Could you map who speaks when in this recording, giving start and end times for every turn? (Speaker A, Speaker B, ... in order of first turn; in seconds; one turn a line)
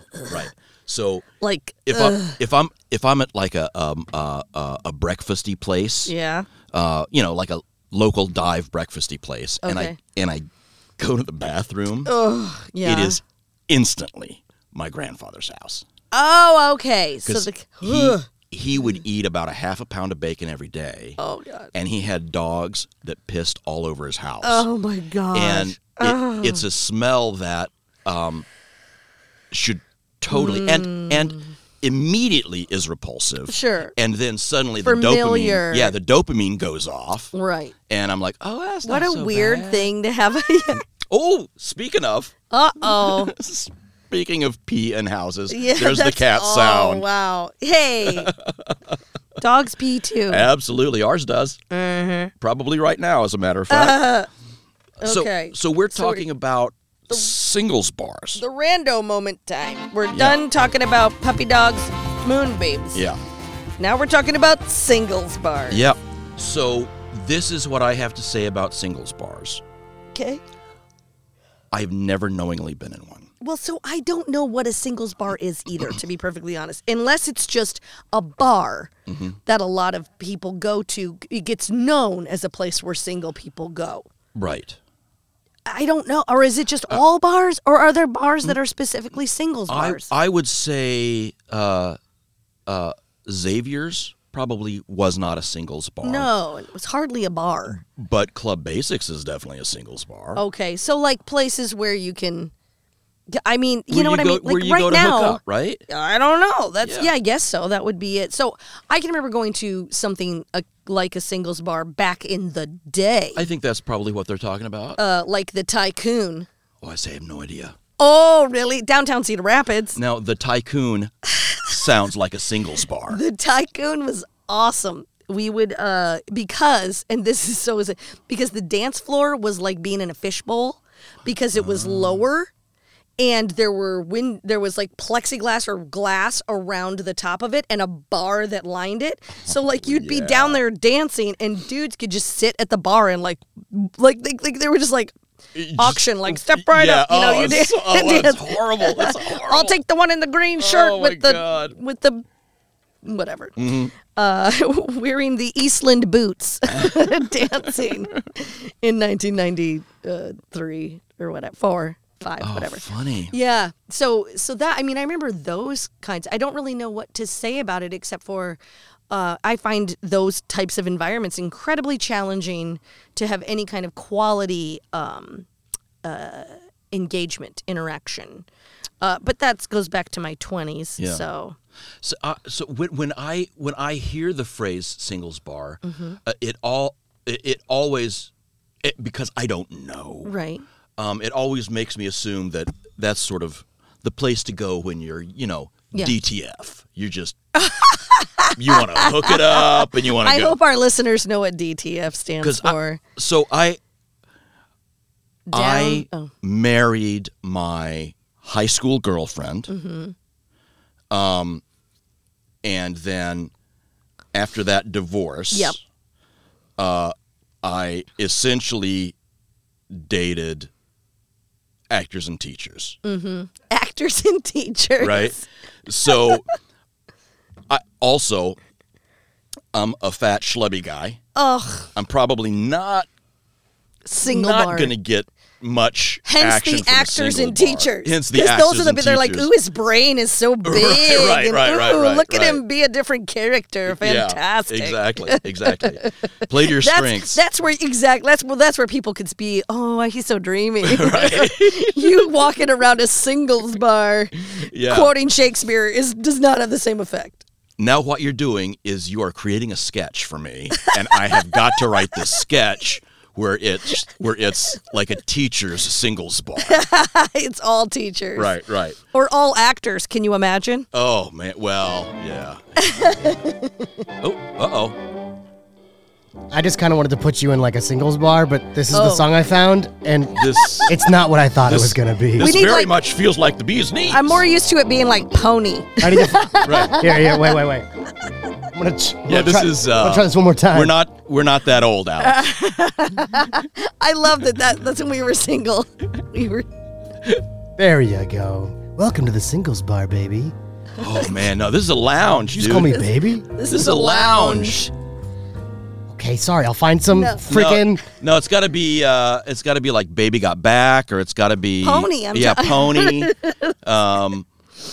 Speaker A: 0.2-1.3
Speaker B: 1.4-2.4
Speaker A: 1.9-6.1
Speaker B: 6.0-6.5
Speaker A: 6.7-10.5
Speaker B: 9.6-10.0
Speaker A: 11.0-12.1
Speaker B: 12.1-13.2
Speaker A: 12.8-15.8
Speaker B: 16.1-18.2
Speaker A: 17.2-21.2
Speaker B: 21.2-21.7
Speaker A: 21.7-24.7
Speaker B: 24.4-26.6
Speaker A: 25.3-28.4
Speaker A: 29.5-37.3
Speaker B: 30.3-31.5
Speaker B: 33.5-33.9
Speaker B: 34.8-35.9
Speaker B: 37.3-37.7
Speaker A: 37.9-39.9
Speaker B: 38.8-40.8
Speaker A: 41.0-47.0
Speaker B: 42.5-43.3
Speaker B: 45.5-48.3
Speaker A: 48.0-48.8
Speaker B: 49.4-50.5
Speaker A: 50.3-51.6
Speaker B: 51.7-52.3
Speaker A: 52.4-54.1
Speaker B: 53.7-54.3
Speaker B: 55.0-56.2
Speaker A: 55.0-58.4
Speaker B: 58.4-63.0
Speaker A: 60.1-60.4
Speaker B: 63.8-65.8
Speaker A: 65.7-69.6
Speaker B: 70.1-70.4
Speaker A: 71.7-73.3
Speaker B: 73.4-78.9
Speaker A: 79.1-79.4
Speaker B: 79.5-84.1
Speaker A: 84.3-84.8
Speaker B: 85.7-90.1
Speaker A: 89.7-92.0
Speaker A: 92.7-96.3
Speaker B: 96.0-97.8
Speaker A: 97.8-100.4
Speaker B: 100.3-102.5
Speaker B: 103.3-113.5
Speaker A: 103.9-105.8
Speaker A: 106.8-107.1
Speaker A: 113.3-115.0
Speaker B: 115.0-116.5
Speaker A: 116.8-117.8
Speaker B: 118.0-120.0
Speaker A: 120.0-123.2
Speaker B: 123.1-132.5
Speaker A: 131.5-132.2
Speaker B: 133.2-145.1
Speaker A: 139.5-140.6
Speaker A: 145.5-149.8
Speaker B: 145.7-152.2
Speaker A: 150.6-151.8
Speaker B: 153.0-168.6
Speaker A: 153.6-153.9
Speaker A: 156.7-158.2
Speaker A: 162.4-163.3
Speaker B: 169.1-175.5
Speaker B: 176.0-178.4
Speaker B: 179.0-181.6
Speaker A: 181.0-181.2
Speaker A: 182.0-188.3
Speaker B: 185.8-186.2
Speaker A: 188.8-190.3
Speaker B: 190.2-190.6
Speaker A: 191.0-197.4
Speaker B: 197.5-203.0
Speaker A: 198.5-200.6
Speaker A: 202.4-203.8
Speaker B: 205.5-206.3
Speaker A: 205.5-209.7
Speaker B: 209.7-210.1
Speaker A: 211.1-211.6
Speaker A: 212.6-213.5
Speaker A: 214.3-215.8
Speaker B: 215.5-215.8
Speaker A: 216.8-219.1
Speaker A: 219.9-220.7
Speaker A: 221.9-223.0
Speaker B: 223.0-225.4
Speaker A: 225.0-226.4
Speaker A: 227.7-228.6
Speaker A: 229.7-231.2
Speaker B: 231.3-231.9
Speaker A: 231.9-233.1
Speaker B: 234.1-234.9
Speaker A: 234.3-239.5
Speaker B: 236.2-257.4
Speaker A: 240.6-242.6
Speaker A: 243.9-247.4
Speaker A: 250.8-252.3
Speaker A: 254.6-255.1
Speaker A: 257.8-266.8
Speaker B: 260.8-261.4
Speaker B: 266.6-268.5
Speaker A: 268.4-269.0
Speaker B: 269.1-270.9
Speaker A: 270.9-272.6
Speaker B: 272.8-273.9
Speaker A: 274.2-275.0
Speaker C: 276.5-282.5
Speaker B: 278.9-279.3
Speaker A: 280.3-281.0
Speaker A: 281.6-284.4
Speaker B: 282.4-282.9
Speaker B: 284.1-287.6
Speaker C: 286.0-287.9
Speaker A: 286.6-287.0
Speaker C: 288.7-290.9
Speaker A: 289.3-292.4
Speaker B: 292.2-296.7
Speaker C: 297.8-300.5
Speaker A: 301.0-303.0
Speaker C: 302.5-303.5
Speaker B: 303.5-304.9
Speaker A: 303.7-304.9
Speaker C: 306.1-308.0
Speaker B: 307.1-307.4
Speaker A: 307.5-314.5
Speaker B: 311.8-313.7